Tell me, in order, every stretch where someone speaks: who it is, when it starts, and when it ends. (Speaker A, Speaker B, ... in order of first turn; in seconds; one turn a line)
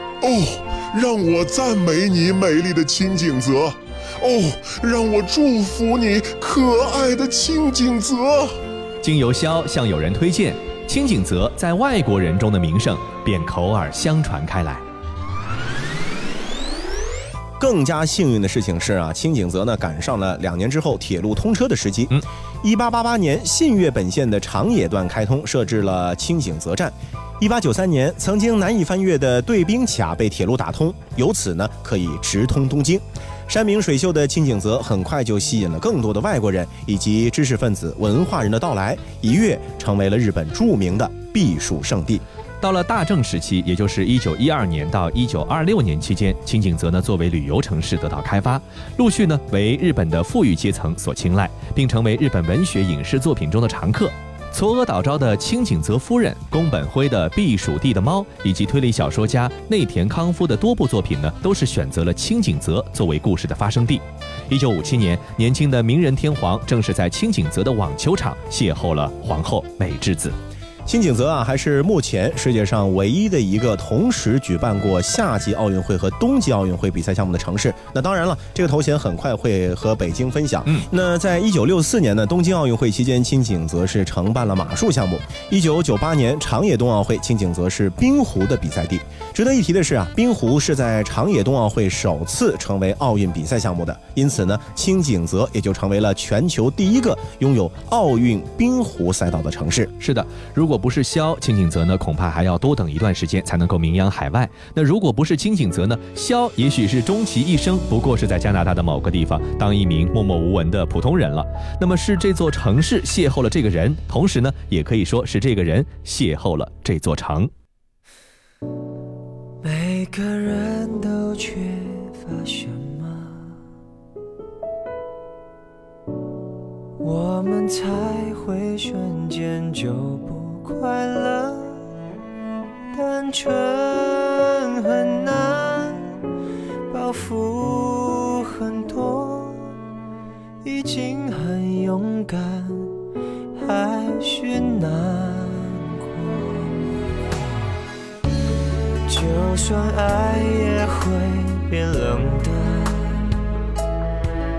Speaker A: 0.2-8.5
Speaker B: 9.0-14.8
Speaker C: 17.6-42.2
Speaker B: 42.6-70.3
Speaker C: 70.8-99.9
Speaker B: 100.0-117.5
Speaker D: 119.6-123.6
Speaker D: 127.0-131.9
Speaker D: 132.9-136.1
Speaker D: 136.9-139.7
Speaker D: 140.6-142.9
Speaker D: 143.6-147.1
Speaker D: 149.1-153.4